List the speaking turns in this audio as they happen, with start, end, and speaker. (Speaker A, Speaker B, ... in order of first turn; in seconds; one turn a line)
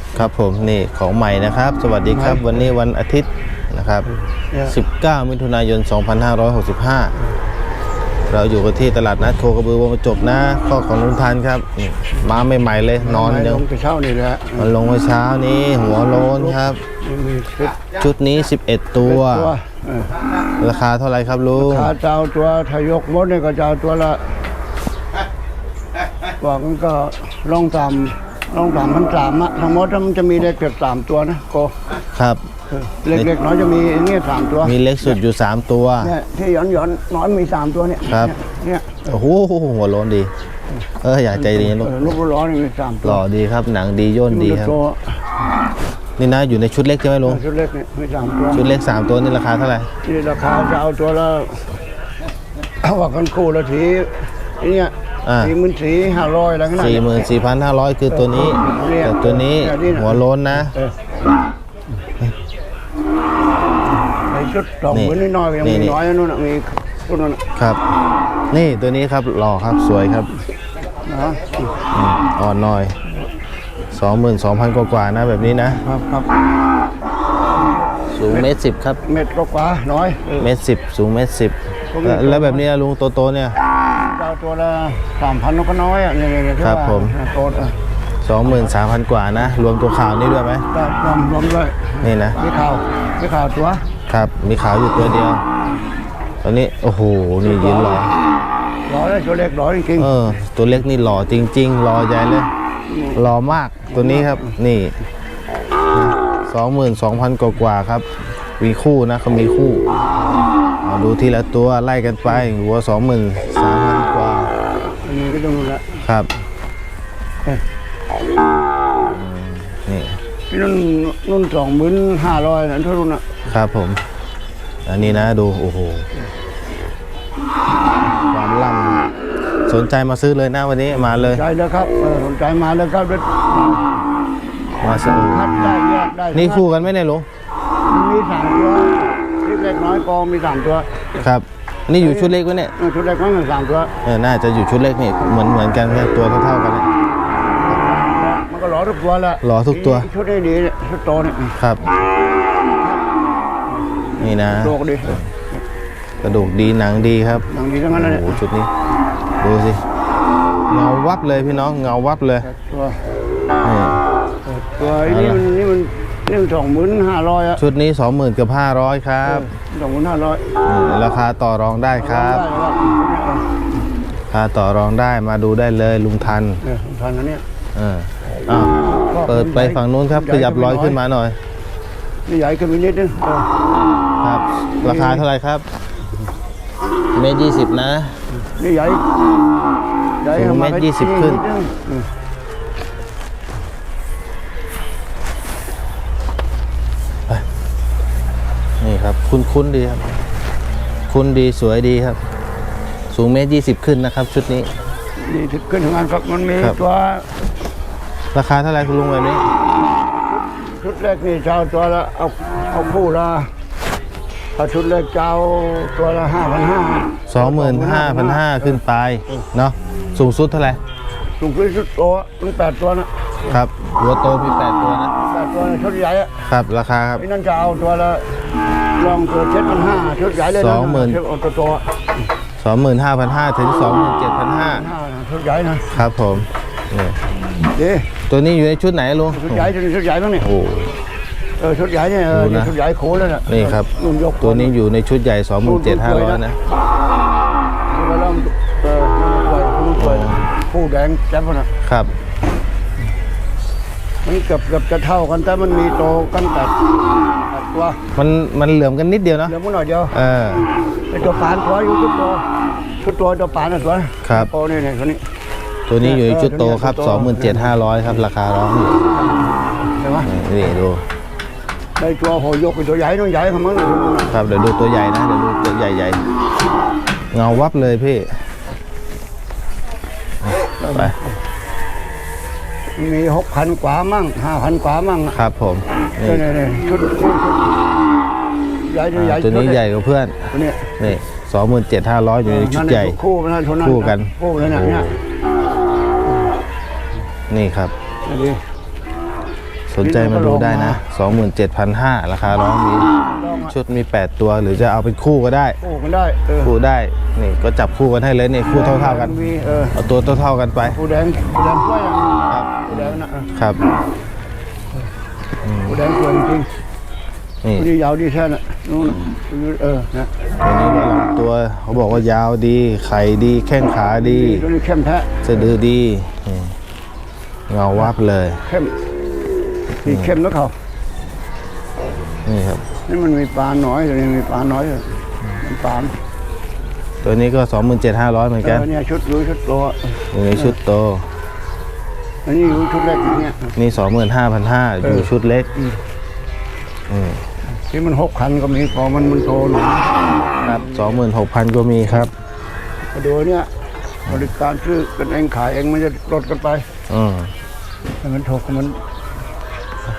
Speaker A: 0.1-4.1
Speaker B: 2.1-2.5
Speaker B: 4.5-4.8
Speaker A: 4.7-7.2
Speaker A: 8.3-13.6
Speaker B: 13.0-14.7
Speaker A: 14.6-16.8
Speaker B: 16.2-17.8
Speaker A: 17.9-19.5
Speaker B: 19.0-20.1
Speaker A: 20.6-21.9
Speaker B: 21.6-24.2
Speaker B: 26.4-31.7
Speaker A: 32.1-32.4
Speaker B: 32.7-35.1
Speaker A: 34.6-36.1
Speaker B: 36.0-39.2
Speaker A: 38.1-38.3
Speaker A: 39.1-40.3
Speaker A: 41.0-42.1
Speaker B: 41.4-43.2
Speaker A: 43.0-44.8
Speaker B: 44.3-45.2
Speaker A: 46.2-47.4
Speaker B: 47.3-48.6
Speaker A: 48.5-49.9
Speaker B: 50.0-51.7
Speaker B: 52.8-57.2
Speaker A: 55.3-55.5
Speaker A: 56.7-60.7
Speaker B: 58.1-60.9
Speaker B: 64.3-67.4
Speaker A: 64.9-66.0
Speaker A: 67.6-67.9
Speaker A: 68.5-70.3
Speaker B: 71.0-71.7
Speaker A: 71.9-73.0
Speaker A: 73.9-75.8
Speaker B: 75.7-76.4
Speaker A: 78.1-79.0
Speaker B: 79.0-80.5
Speaker A: 80.4-83.6
Speaker B: 81.9-82.7
Speaker B: 83.9-87.8
Speaker A: 86.6-87.2
Speaker A: 88.2-90.7
Speaker B: 90.7-93.8
Speaker A: 92.0-92.4
Speaker A: 94.1-95.4
Speaker A: 96.4-98.2
Speaker B: 97.4-98.1
Speaker B: 98.9-100.2
Speaker A: 100.0-102.5
Speaker B: 102.9-103.2
Speaker A: 103.1-105.0
Speaker B: 103.9-104.6
Speaker A: 105.9-108.1
Speaker A: 108.6-109.9
Speaker A: 110.8-114.5
Speaker B: 115.0-116.0
Speaker A: 116.0-116.3
Speaker A: 119.0-120.2
Speaker B: 120.5-123.4
Speaker A: 123.5-124.0
Speaker A: 124.9-126.1
Speaker A: 128.3-129.1
Speaker A: 129.7-131.4
Speaker B: 131.0-133.9
Speaker A: 134.8-135.8
Speaker B: 134.8-136.7
Speaker A: 136.3-137.3
Speaker B: 137.9-141.2
Speaker A: 141.2-142.7
Speaker B: 142.0-144.0
Speaker A: 144.1-146.9
Speaker B: 147.6-151.6
Speaker A: 149.4-150.1
Speaker A: 151.6-151.8
Speaker A: 154.2-155.2
Speaker B: 154.2-155.6
Speaker A: 156.2-158.7
Speaker B: 157.4-158.4
Speaker A: 159.4-159.8
Speaker A: 160.7-162.5
Speaker B: 162.4-163.0
Speaker A: 163.6-164.0
Speaker B: 164.5-167.6
Speaker A: 165.1-165.4
Speaker A: 167.6-169.5
Speaker B: 169.2-170.5
Speaker A: 170.7-172.4
Speaker B: 172.0-173.5
Speaker A: 174.3-176.6
Speaker B: 176.6-177.4
Speaker A: 177.8-178.7
Speaker B: 178.4-181.0
Speaker A: 179.3-181.4
Speaker B: 182.3-183.5
Speaker A: 184.2-185.7
Speaker B: 184.8-185.2
Speaker A: 187.1-188.2
Speaker B: 188.4-189.1
Speaker B: 190.2-192.1
Speaker A: 190.3-191.4
Speaker A: 198.8-200.0
Speaker A: 201.1-202.2
Speaker A: 203.1-204.7
Speaker B: 205.2-207.3
Speaker A: 208.3-209.4
Speaker B: 210.0-213.5
Speaker B: 214.6-218.8
Speaker A: 217.3-220.8
Speaker B: 221.4-223.5
Speaker A: 223.5-225.1
Speaker B: 225.2-226.5
Speaker A: 226.5-227.2
Speaker B: 227.2-228.4
Speaker B: 229.0-231.8
Speaker A: 230.6-231.2
Speaker A: 232.6-234.8
Speaker B: 234.7-236.0
Speaker A: 235.9-237.2
Speaker B: 237.7-238.1
Speaker A: 238.3-239.7
Speaker B: 239.3-240.5
Speaker A: 240.4-241.0
Speaker B: 241.6-244.7
Speaker A: 242.3-242.7
Speaker A: 243.5-243.9
Speaker A: 244.4-246.6
Speaker B: 245.6-246.4
Speaker B: 247.9-251.7
Speaker A: 250.0-250.4
Speaker B: 254.2-256.8
Speaker B: 257.5-258.0
Speaker A: 258.2-259.6
Speaker B: 259.5-260.2
Speaker A: 260.1-260.7
Speaker B: 261.1-262.4
Speaker B: 263.0-265.2
Speaker A: 264.2-264.5
Speaker A: 265.9-269.1
Speaker B: 266.0-267.8
Speaker B: 269.2-270.3
Speaker A: 270.2-271.0
Speaker B: 272.0-274.3
Speaker A: 274.3-276.2
Speaker A: 277.3-278.3
Speaker B: 280.8-281.3
Speaker B: 283.0-285.4
Speaker A: 285.3-286.4
Speaker B: 286.2-287.7
Speaker B: 288.9-289.8
Speaker A: 289.1-293.2
Speaker B: 290.5-291.2
Speaker B: 292.4-295.1
Speaker A: 293.8-295.2
Speaker A: 297.5-297.9
Speaker B: 298.3-298.6
Speaker A: 299.9-303.1
Speaker B: 300.0-301.0
Speaker B: 303.1-303.8
Speaker A: 303.7-305.8
Speaker B: 305.8-306.7
Speaker A: 306.6-309.3
Speaker B: 308.7-310.0
Speaker A: 309.9-311.0
Speaker B: 310.8-313.5
Speaker A: 312.5-313.8
Speaker A: 315.6-316.0
Speaker B: 315.8-316.7
Speaker B: 317.8-320.3
Speaker A: 320.6-324.7
Speaker B: 324.2-325.7
Speaker A: 325.4-326.8
Speaker A: 327.7-328.6
Speaker B: 328.7-328.9
Speaker B: 330.0-330.7
Speaker A: 330.1-330.3
Speaker A: 332.5-332.8
Speaker B: 333.1-336.1
Speaker A: 337.2-338.9
Speaker B: 338.6-340.7
Speaker A: 340.3-341.3
Speaker B: 342.4-343.8
Speaker A: 343.8-345.7
Speaker B: 345.0-346.0
Speaker A: 347.1-347.4
Speaker B: 347.8-351.2
Speaker A: 350.6-352.3
Speaker B: 353.1-353.7
Speaker B: 354.3-356.9
Speaker A: 357.1-357.5
Speaker B: 358.2-359.0